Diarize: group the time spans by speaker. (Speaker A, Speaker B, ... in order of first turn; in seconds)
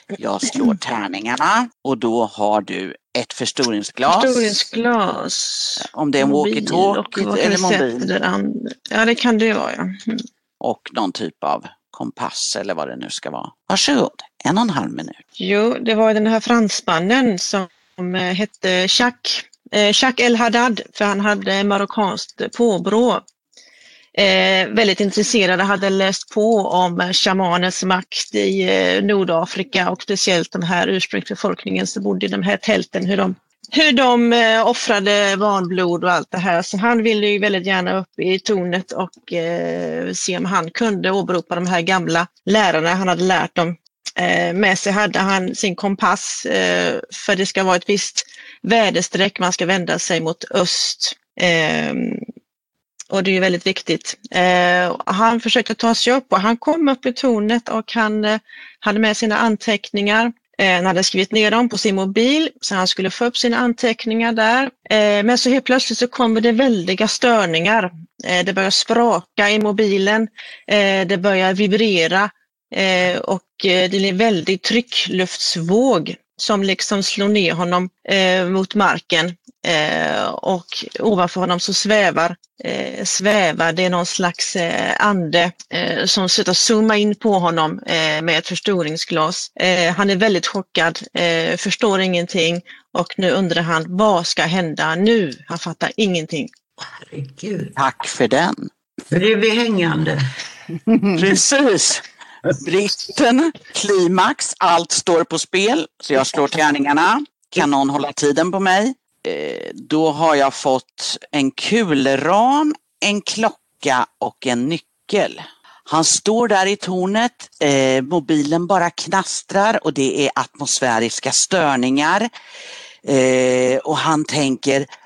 Speaker A: 0.2-4.7, 5.8-8.1, 10.6-15.2, 97.8-98.7, 101.1-102.0, 102.6-122.3, 123.0-124.9
Speaker B: 4.0-10.2, 15.4-23.2, 24.1-52.2, 53.1-96.5
Speaker C: 96.8-97.7, 99.1-100.2